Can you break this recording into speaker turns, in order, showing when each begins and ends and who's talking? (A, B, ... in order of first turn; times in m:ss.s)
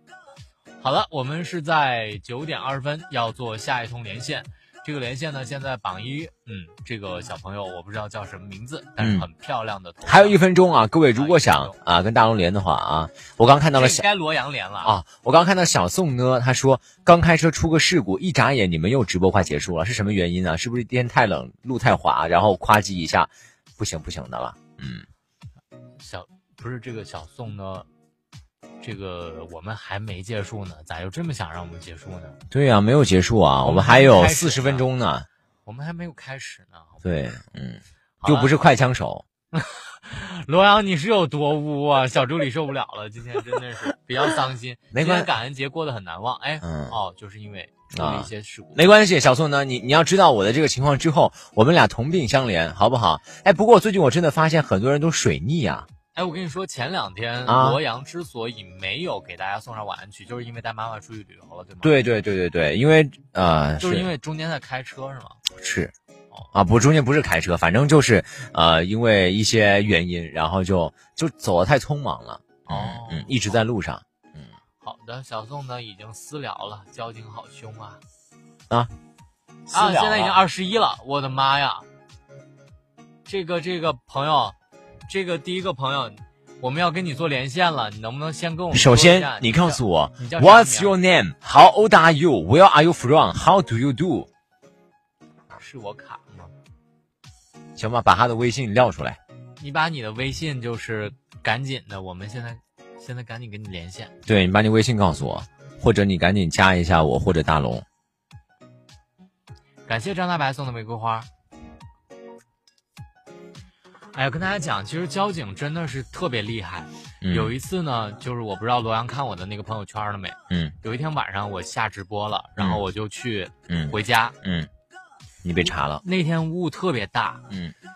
0:00.8-0:10.4 A
0:09.0-0:09.3 B
0:10.0-0:14.0 B
0:11.1-0:11.8 A
0:13.7-0:14.9 A
0:14.8-0:25.1 B
0:26.0-0:27.9 A
0:28.8-0:32.4 A
0:32.5-0:35.3 B
0:33.6-0:34.8 A
0:35.6-0:37.0 A
0:37.0-0:39.2 B
0:38.2-0:38.5 A
0:39.5-0:48.9 A
0:44.9-0:45.3 B
0:46.6-0:47.0 B
0:47.9-0:55.9 B
0:56.1-1:01.9 A
0:57.4-0:57.8 B
1:01.8-1:04.1 B
1:03.8-1:05.4 A
1:05.5-1:05.9 B
1:06.5-1:14.5 B
1:12.7-1:13.3 A
1:14.8-1:18.0 A
1:19.7-1:20.4 B
1:19.7-1:21.8 A
1:23.2-1:24.6 A
1:25.1-1:30.9 A
1:28.7-1:34.3 B
1:35.6-1:36.5 A
1:37.8-1:39.2 B
1:39.6-1:44.1 A
1:44.2-1:47.8 B
1:49.9-1:51.3 A
1:54.1-2:04.3 A
1:57.2-1:57.5 B
2:00.5-2:00.7 B
2:02.6-2:02.8 B
2:03.7-2:04.7 B
2:05.4-2:06.0 B
2:06.0-2:07.4 A